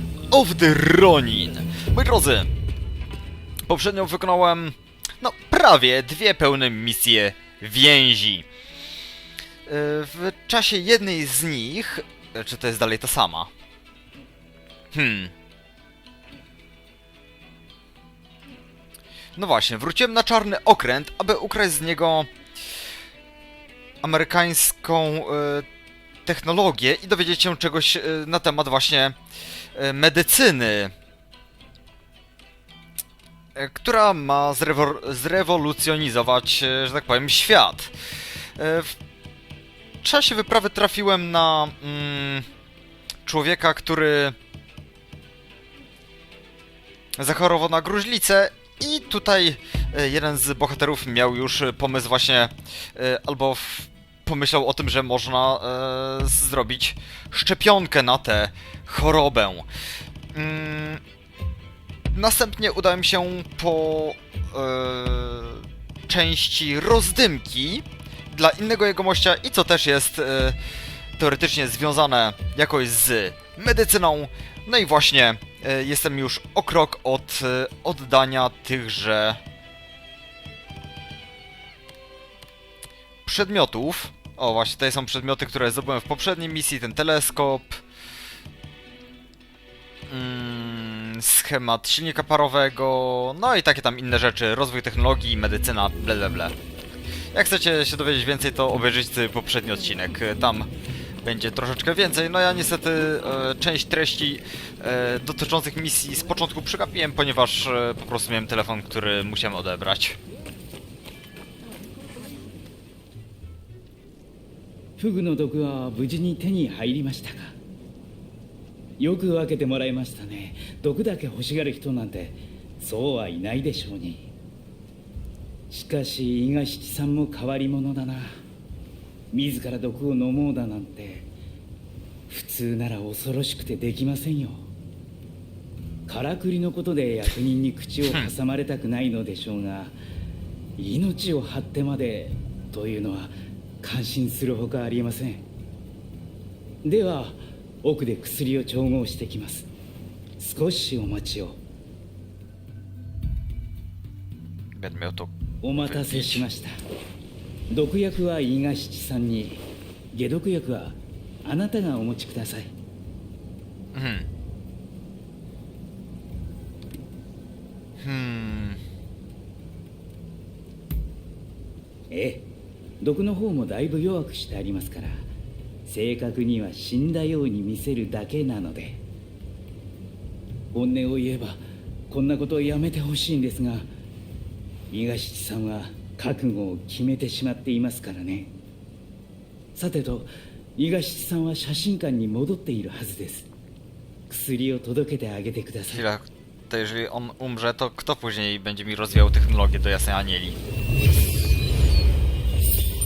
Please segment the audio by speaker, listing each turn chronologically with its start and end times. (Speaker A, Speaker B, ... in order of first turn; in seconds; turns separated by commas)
Speaker A: 0.3-2.5, Speaker A: 3.7-8.5, Speaker A: 9.7-13.5, Speaker A: 14.9-15.3, Speaker A: 19.4-22.3, Speaker A: 24.0-25.7, Speaker A: 26.3-29.2, Speaker A: 29.8-30.9, Speaker A: 33.5-37.9, Speaker A: 38.6-39.0, Speaker A: 40.0-42.5, Speaker A: 43.2-44.4, Speaker A: 47.2-59.7, Speaker A: 60.3-61.0, Speaker A: 62.1-70.6, Speaker A: 71.2-79.4, Speaker A: 83.2-87.8, Speaker A: 90.1-96.5, Speaker A: 97.3-100.7, Speaker A: 101.2-110.2, Speaker B: 115.0-117.6, Speaker B: 119.0-124.3, Speaker B: 125.7-128.4, Speaker B: 129.3-131.3, Speaker B: 132.3-134.7, Speaker B: 136.1-139.9, Speaker A: 138.0-138.3, Speaker B: 140.8-145.4, Speaker B: 146.8-149.7, Speaker B: 150.4-151.6, Speaker A: 154.8-156.4, Speaker B: 155.6-156.7, Speaker B: 157.7-162.7, Speaker A: 163.9-164.3, Speaker A: 168.0-168.8, Speaker B: 172.1-172.5, Speaker B: 173.0-175.3, Speaker B: 175.9-179.0, Speaker B: 180.7-183.9, Speaker B: 184.9-188.5, Speaker B: 189.8-193.5, Speaker B: 194.3-196.0, Speaker A: 195.9-200.6